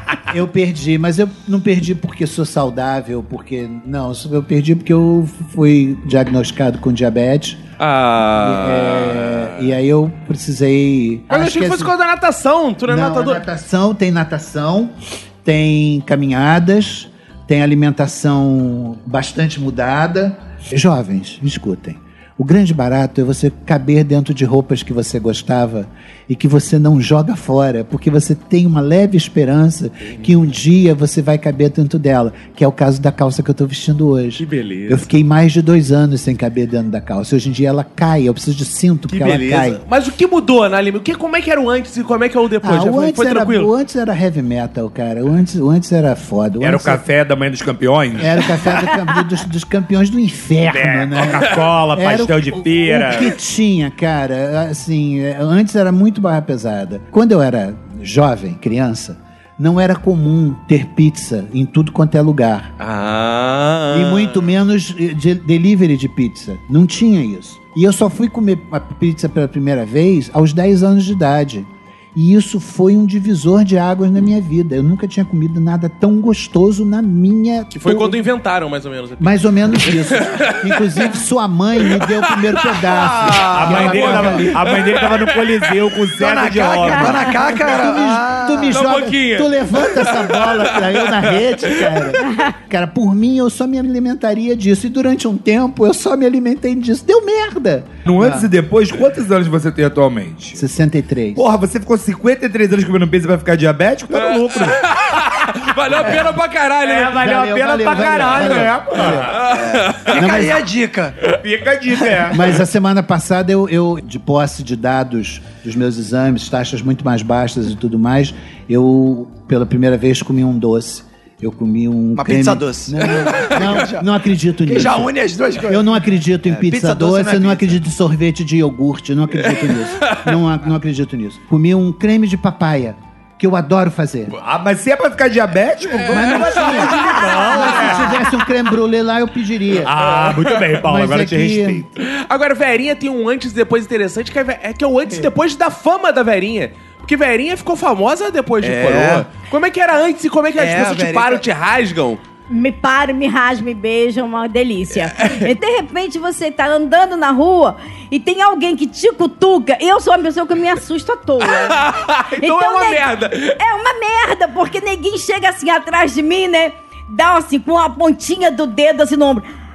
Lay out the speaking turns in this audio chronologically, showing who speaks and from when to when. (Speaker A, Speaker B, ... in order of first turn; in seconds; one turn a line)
Speaker A: 0.3-7.6
Speaker B: 7.8-9.7
Speaker A: 8.4-11.9
Speaker B: 11.3-13.4
Speaker A: 12.8-39.8
Speaker B: 34.4-35.1
Speaker B: 39.1-43.7
Speaker A: 42.6-47.0
Speaker C: 46.6-48.5
Speaker A: 48.2-62.7
Speaker C: 50.7-53.4
Speaker B: 62.8-64.5
Speaker A: 63.9-78.2
Speaker B: 77.7-80.9
Speaker A: 79.2-84.6
Speaker B: 81.8-82.8
Speaker D: 82.9-84.5
Speaker C: 83.5-87.3
Speaker B: 84.7-85.4
Speaker D: 86.1-88.8
Speaker A: 87.3-98.5
Speaker B: 88.7-92.0
Speaker C: 98.0-100.6
Speaker A: 100.5-101.5
Speaker C: 101.3-104.8
Speaker B: 104.1-107.2
Speaker C: 106.8-109.3
Speaker A: 107.0-109.3
Speaker B: 109.3-110.2
Speaker D: 109.4-111.3
Speaker A: 110.1-110.6
Speaker C: 111.4-112.5
Speaker A: 112.3-125.1
Speaker D: 122.2-124.0
Speaker D: 124.6-127.8
Speaker A: 125.7-134.3
Speaker C: 134.3-138.1
Speaker B: 135.9-138.1
Speaker A: 136.1-139.9
Speaker C: 139.8-141.9
Speaker B: 140.2-140.6
Speaker A: 140.8-141.8
Speaker B: 142.0-152.2
Speaker D: 148.6-149.2
Speaker D: 150.6-151.4
Speaker E: 152.5-161.8
Speaker B: 155.1-155.5
Speaker B: 161.4-163.6
Speaker E: 162.4-169.4